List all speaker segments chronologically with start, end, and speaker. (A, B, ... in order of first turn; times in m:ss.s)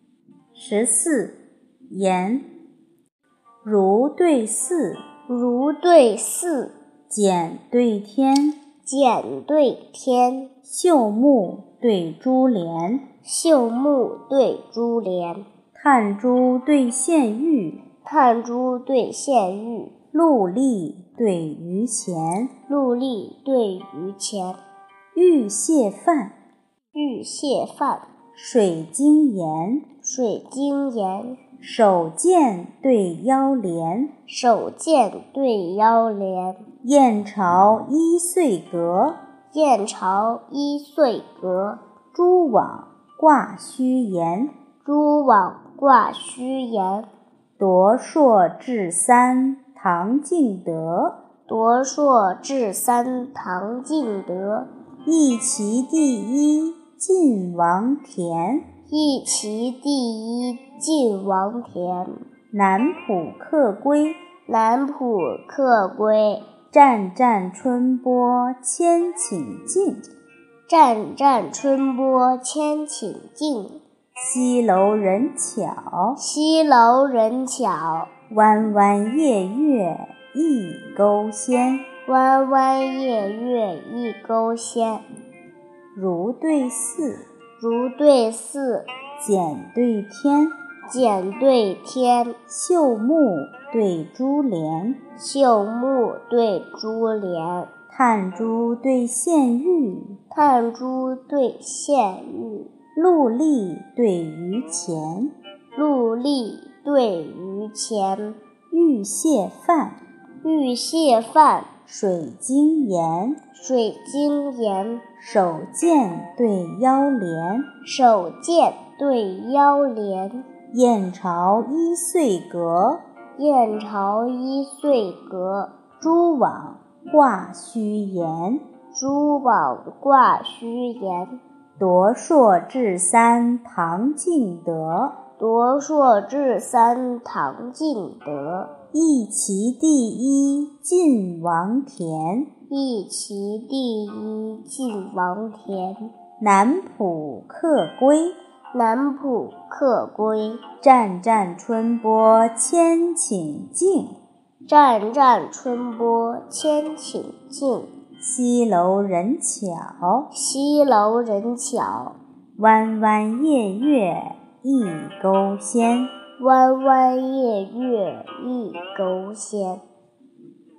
0:00.5-0:02.5 A
0:03.6-0:05.1 A
0:05.3-0:06.7 B
0:07.1-0:08.6 A
0:08.8-0:10.5 B
0:10.7-0:13.0 A
0:13.2-0:15.4 B
0:15.8-0:17.8 A
0:18.0-0:19.9 B
0:20.1-0:22.5 A
0:22.7-0:24.6 B
0:25.1-0:26.4 A
0:26.9-0:28.1 B
0:28.4-0:29.9 A
0:30.0-0:31.4 B
0:31.6-0:34.1 A
0:34.3-0:36.6 B
0:36.8-0:39.2 A
0:39.5-0:41.8 B
0:42.1-0:44.5 A
0:44.8-0:47.1 B
0:47.6-0:51.2 A
0:51.5-0:54.7 B
0:55.1-0:58.7 A
0:58.9-1:02.2 B
1:02.5-1:04.2 A
1:04.5-1:06.4 B
1:06.7-1:10.0 A
1:10.7-1:13.8 B
1:14.2-1:16.2 A
1:16.2-1:18.1 B
1:18.3-1:21.9 A
1:22.1-1:25.0 B
1:26.0-1:27.2 A
1:27.6-1:28.9 B
1:29.2-1:30.6 A
1:30.9-1:32.4 B
1:32.5-1:35.0 A
1:35.2-1:37.7 B
1:37.9-1:40.2 A
1:40.3-1:42.7 B
1:43.0-1:45.3 A
1:45.8-1:48.4 B
1:48.7-1:50.0 A
1:50.4-1:51.7 B
1:51.9-1:53.4 A
1:53.5-1:55.0 B
1:55.2-1:57.7 A
1:57.8-2:00.5 B
2:00.7-2:03.0 A
2:03.4-2:05.7 B
2:06.0-2:08.6 A
2:08.9-2:11.4 B
2:11.8-2:15.2 A
2:15.4-2:18.7 B
2:18.9-2:22.5 A
2:22.7-2:26.1 B
2:26.4-2:28.4 A
2:28.7-2:30.6 B
2:30.8-2:34.2 A
2:34.7-2:37.9 B
2:38.2-2:40.3 A
2:40.3-2:42.2 B
2:42.6-2:46.1 A
2:46.4-2:49.8 B